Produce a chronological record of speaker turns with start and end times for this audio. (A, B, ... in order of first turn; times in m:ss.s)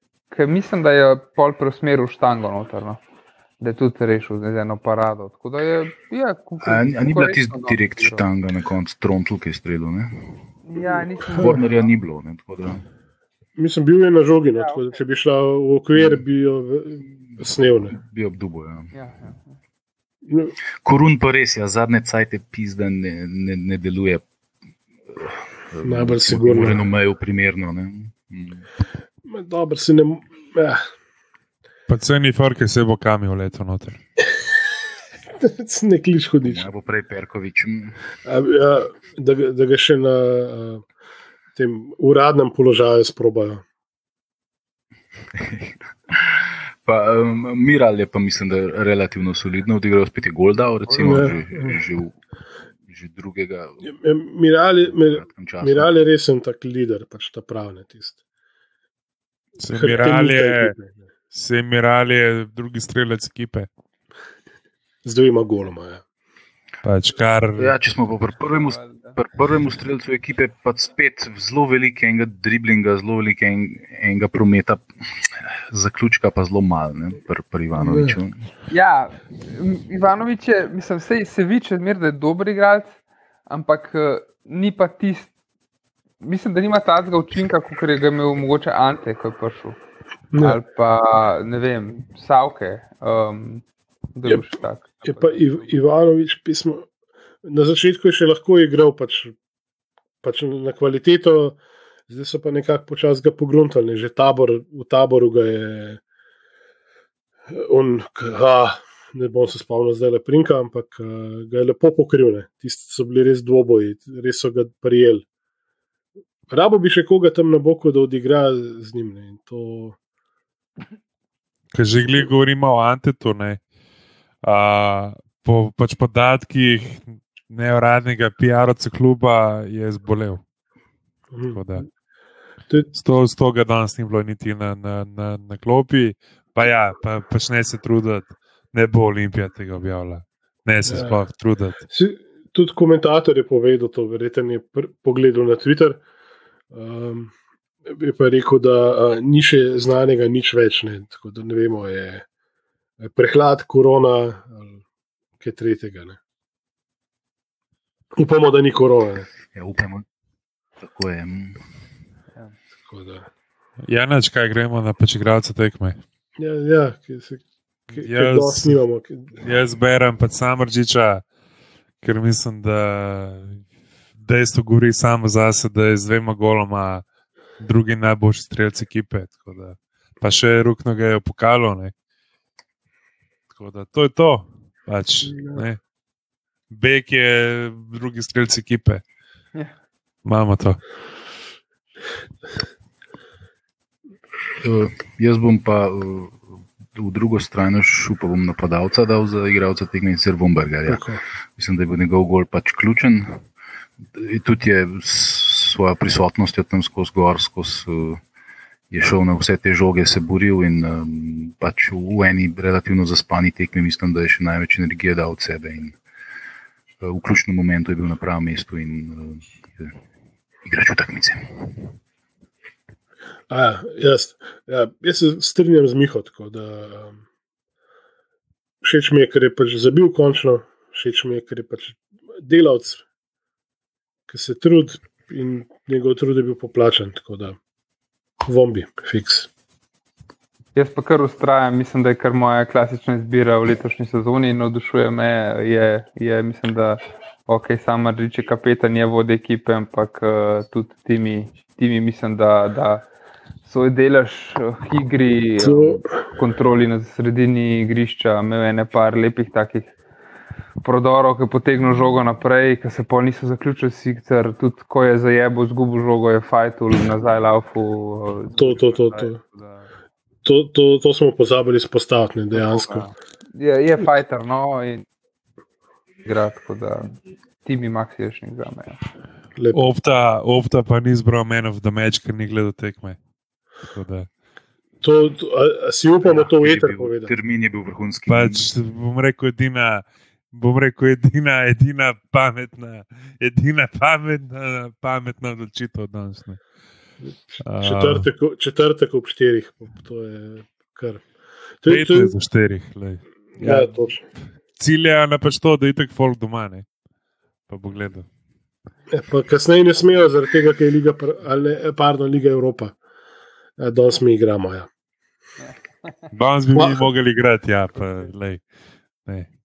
0:00.3-0:03.0 A
0:03.6-0:08.2 A
0:06.6-0:10.4 B
0:10.6-0:11.7 A
0:11.4-0:12.8 B
0:13.6-0:18.0 C
0:14.5-0:15.0 A
0:15.9-0:16.2 B
0:17.9-0:18.9 B
0:18.9-0:19.6 A
0:20.3-0:20.5 C
0:20.8-0:24.2 B
0:25.1-0:28.7 B
0:25.8-0:26.8 C
0:29.2-0:30.8 C
0:31.9-0:34.0 D
0:35.4-0:36.7 C
0:36.4-0:38.0 B
0:38.2-0:40.8 C
0:41.6-0:43.6 C
0:45.3-0:52.2 B
0:51.0-0:51.8 C
0:52.9-0:53.9 B
0:53.8-0:58.2 C
0:54.8-0:55.9 B
0:59.6-1:00.8 D
0:59.7-1:01.0 C
1:01.3-1:03.7 D
1:05.0-1:06.0 C
1:06.8-1:07.7 D
1:07.6-1:18.4 B
1:08.5-1:09.2 A
1:17.8-1:18.2 C
1:18.7-1:25.3 A
1:26.2-1:29.8 A
1:30.3-1:30.6 C
1:30.4-1:35.8 A
1:35.0-1:36.9 C
1:37.4-1:39.4 C
1:40.2-1:46.0 C
1:47.5-1:55.2 C
1:56.5-2:00.0 C
2:01.7-2:03.6 D
2:04.4-2:10.4 D
2:11.3-2:11.9 C
2:11.5-2:11.8 D
2:12.9-2:21.8 D
2:20.9-2:21.2 C
2:21.9-2:26.0 C
2:26.7-2:27.3 C
2:27.9-2:32.3 C
2:33.0-2:34.8 C
2:35.4-2:36.2 C
2:38.2-2:39.3 C
2:39.5-2:40.0 B
2:40.8-2:41.6 B
2:42.8-2:43.3 C
2:43.8-2:46.0 D
2:46.4-2:47.4 C
2:47.9-2:49.3 C
2:48.0-2:48.8 D
2:49.4-2:51.2 D
2:52.0-2:53.6 D
2:54.2-2:57.0 D
2:57.6-3:01.9 D
3:03.5-3:05.8 D
3:05.2-3:05.6 C
3:06.7-3:09.0 D
3:10.2-3:10.8 D
3:14.6-3:21.0 B
3:20.9-3:21.2 C
3:21.6-3:23.4 B
3:24.1-3:28.2 B
3:28.9-3:36.0 B
3:37.0-3:39.9 B
3:40.6-3:41.9 B
3:43.5-3:47.2 C
3:48.8-3:53.0 C
3:54.3-3:57.6 C
3:58.5-3:59.5 C
4:00.8-4:13.1 A
4:13.6-4:19.9 A
4:15.6-4:16.0 C
4:20.8-4:29.9 A
4:28.6-4:29.4 C
4:30.4-4:33.1 C
4:32.5-4:35.0 A
4:36.2-4:37.1 A
4:37.6-4:39.0 A
4:39.6-4:39.8 C
4:39.7-4:43.2 D
4:43.9-4:44.3 D
4:45.0-4:47.3 C
4:46.2-4:48.7 B
4:48.3-4:56.6 D
4:57.2-5:01.2 C
4:57.6-4:58.3 D
5:01.8-5:02.4 C
5:01.9-5:04.0 D
5:03.6-5:04.2 C
5:04.8-5:06.9 D
5:07.7-5:08.3 D
5:09.1-5:13.0 C
5:13.8-5:14.9 C
5:15.6-5:16.2 A
5:16.3-5:18.7 D
5:16.7-5:17.0 C